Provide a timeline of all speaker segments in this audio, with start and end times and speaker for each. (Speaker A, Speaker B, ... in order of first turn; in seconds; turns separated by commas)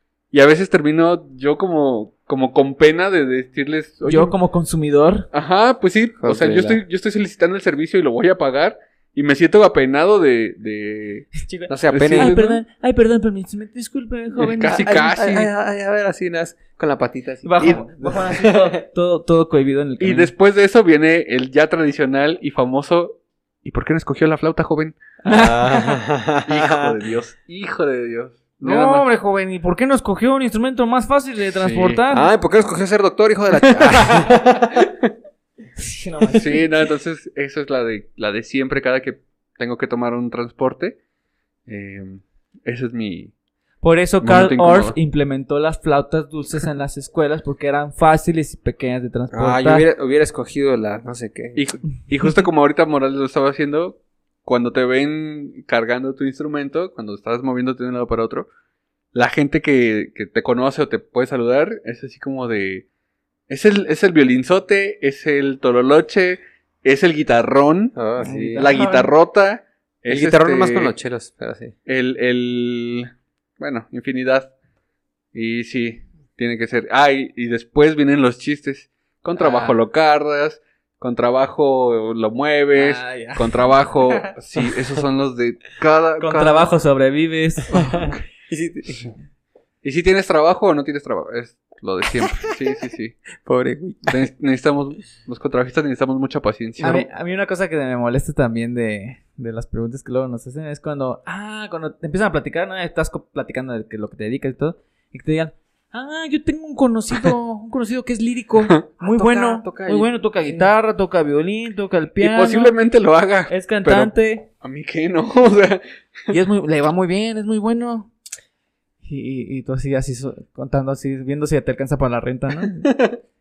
Speaker A: 0.3-4.3, Speaker B: 4.0-5.3, Speaker A: 5.3-11.3, Speaker C: 6.2-6.8, Speaker B: 11.3-14.9, Speaker C: 11.7-12.3, Speaker A: 11.9-12.6, Speaker A: 14.4-15.5, Speaker C: 14.7-18.8, Speaker B: 17.4-20.3, Speaker A: 17.6-17.8, Speaker A: 20.0-25.0, Speaker B: 25.2-26.0, Speaker C: 25.3-26.9, Speaker A: 26.4-29.1, Speaker B: 28.6-32.3, Speaker A: 31.6-32.0, Speaker C: 32.1-34.9, Speaker B: 35.8-36.6, Speaker A: 36.3-41.0, Speaker A: 41.7-43.3, Speaker B: 43.8-49.9, Speaker A: 44.2-45.0, Speaker C: 49.3-51.6, Speaker A: 51.5-58.5, Speaker A: 59.1-62.8, Speaker A: 63.5-68.0, Speaker C: 67.9-68.7, Speaker B: 68.2-69.1, Speaker A: 68.5-70.9, Speaker C: 70.1-71.7, Speaker A: 71.8-74.5, Speaker A: 75.3-86.7, Speaker C: 79.4-79.8, Speaker B: 82.7-84.3, Speaker B: 86.2-87.7, Speaker A: 87.7-88.1, Speaker C: 87.7-89.1, Speaker A: 89.8-93.2, Speaker C: 93.4-94.2, Speaker A: 94.1-97.1, Speaker B: 96.8-112.7, Speaker C: 109.0-110.7, Speaker A: 112.2-116.3, Speaker B: 113.5-114.5, Speaker B: 116.3-118.1, Speaker B: 119.0-123.0, Speaker A: 122.9-123.2